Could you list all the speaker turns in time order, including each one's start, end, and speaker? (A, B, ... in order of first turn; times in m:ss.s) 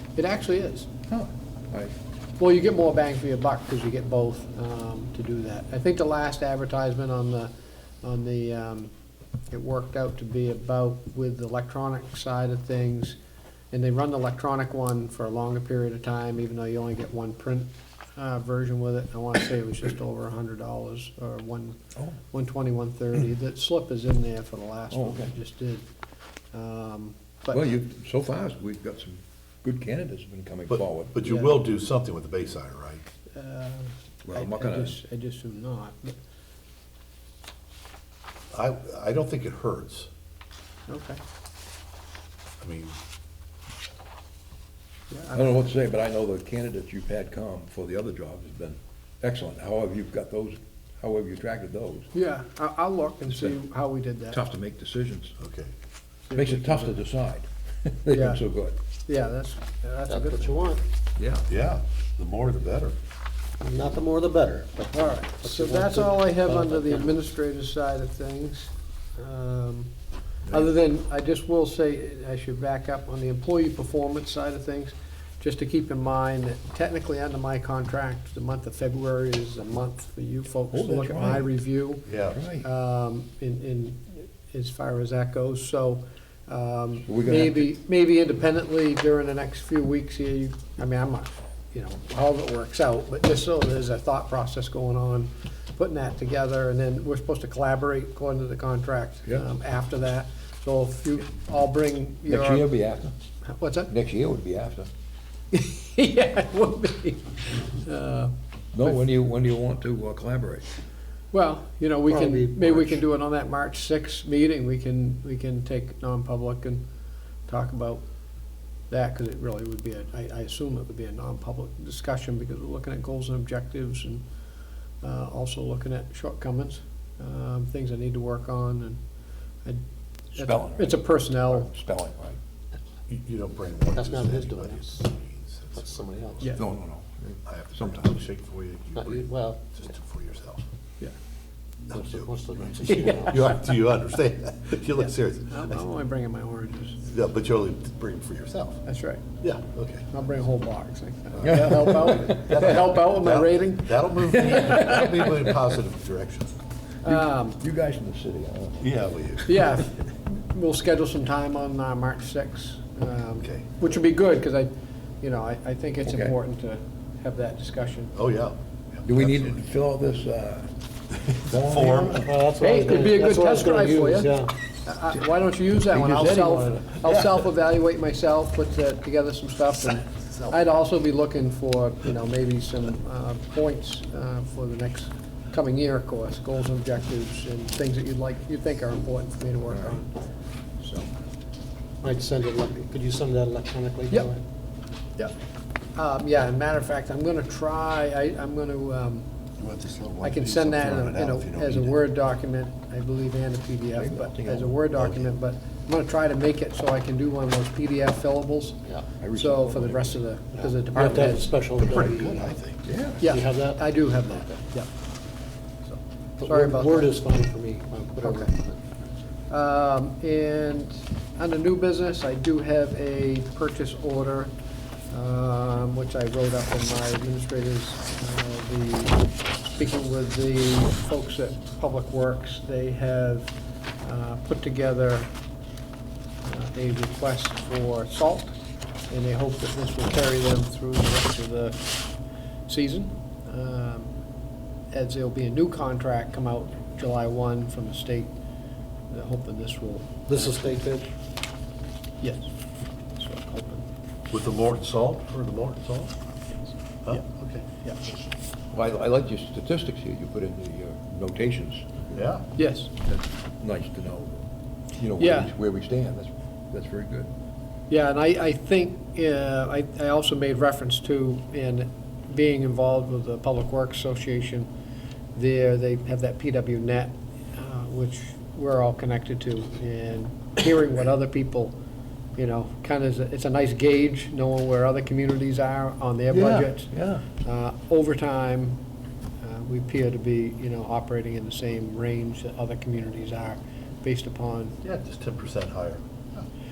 0:00.2-0:00.9 A
0:01.1-0:01.9 B
0:02.4-0:07.5 A
0:08.0-0:08.9 A
0:09.5-0:13.2 A
0:13.7-0:21.8 A
0:22.3-0:25.8 A
0:24.9-0:25.3 B
0:26.5-0:27.6 A
0:27.5-0:31.2 B
0:30.7-0:33.0 C
0:31.2-0:31.6 A
0:33.3-0:36.2 A
0:34.2-0:35.0 B
0:38.5-0:40.1 C
0:40.9-0:41.2 A
0:42.6-0:43.0 C
0:45.1-0:45.7 A
0:45.3-0:52.1 B
0:52.1-0:54.4 A
0:53.2-0:53.6 B
0:54.3-0:55.3 B
0:55.4-0:55.7 C
0:56.3-0:57.0 A
0:56.3-0:58.8 B
0:58.1-0:58.4 A
0:59.1-1:00.6 A
1:00.1-1:00.8 D
1:01.2-1:01.5 B
1:01.5-1:02.9 C
1:03.6-1:07.1 D
1:04.9-1:09.9 A
1:10.4-1:10.7 B
1:10.4-1:42.7 A
1:20.7-1:21.5 B
1:22.0-1:22.4 C
1:22.3-1:22.7 B
1:27.0-1:27.7 B
1:42.3-1:43.1 B
1:43.5-1:43.9 A
1:43.9-1:44.9 B
1:45.5-1:49.0 A
1:48.7-1:50.6 B
1:51.3-1:56.8 A
1:52.1-1:53.0 D
1:57.5-1:58.0 A
1:58.9-2:04.2 A
2:05.0-2:09.0 A
2:10.3-2:11.7 A
2:10.3-2:12.4 B
2:13.1-2:16.5 C
2:13.9-2:15.0 D
2:15.7-2:16.5 D
2:16.5-2:18.2 B
2:17.4-2:20.6 C
2:18.9-2:19.6 D
2:21.8-2:25.8 C
2:21.9-2:23.5 D
2:25.0-2:27.0 A
2:27.0-2:28.8 C
2:28.8-2:29.2 A
2:29.4-2:30.1 C
2:30.1-2:35.2 A
2:31.4-2:36.5 C
2:31.4-2:32.4 B
2:34.4-2:35.1 B
2:37.0-2:37.6 A
2:37.0-2:38.9 B
2:38.8-2:39.7 C
2:39.4-2:48.1 A
2:43.4-2:43.7 C
2:46.0-2:46.3 B
2:48.1-2:49.6 C
2:49.0-2:52.3 B
2:51.5-2:52.5 C
2:52.2-2:54.5 D
2:52.6-3:10.2 A
2:55.9-2:56.8 B
2:57.0-2:57.5 C
3:09.7-3:10.0 B
3:10.8-3:11.1 A
3:12.0-3:14.4 D
3:16.0-3:19.3 A
3:19.6-3:22.0 C
3:20.2-3:31.5 A
3:23.9-3:24.9 B
3:29.2-3:30.2 B
3:30.6-3:32.6 D
3:31.7-3:32.8 C
3:32.8-3:33.3 B
3:33.2-3:34.6 D
3:33.2-3:34.9 A
3:36.4-3:38.8 D
3:36.4-3:37.2 A
3:38.2-3:38.5 A
3:39.5-3:44.5 A
3:45.1-3:55.3 A
3:56.4-3:58.5 A
3:59.1-4:01.9 A
4:02.7-4:04.1 A
4:04.9-4:08.3 A
4:09.1-4:10.6 A
4:10.3-4:11.1 D
4:12.2-4:12.5 A
4:13.1-4:13.8 A
4:14.3-4:16.1 C
4:17.0-4:17.6 C
4:18.7-4:22.0 B
4:22.1-4:22.4 C
4:22.6-4:22.9 A
4:22.9-4:24.4 B
4:25.0-4:27.3 B
4:25.2-4:25.5 A
4:27.9-4:34.7 A
4:35.3-4:41.8 A
4:42.4-4:48.8 A
4:46.3-4:47.2 B
4:49.4-4:54.8 A
4:54.8-4:56.4 C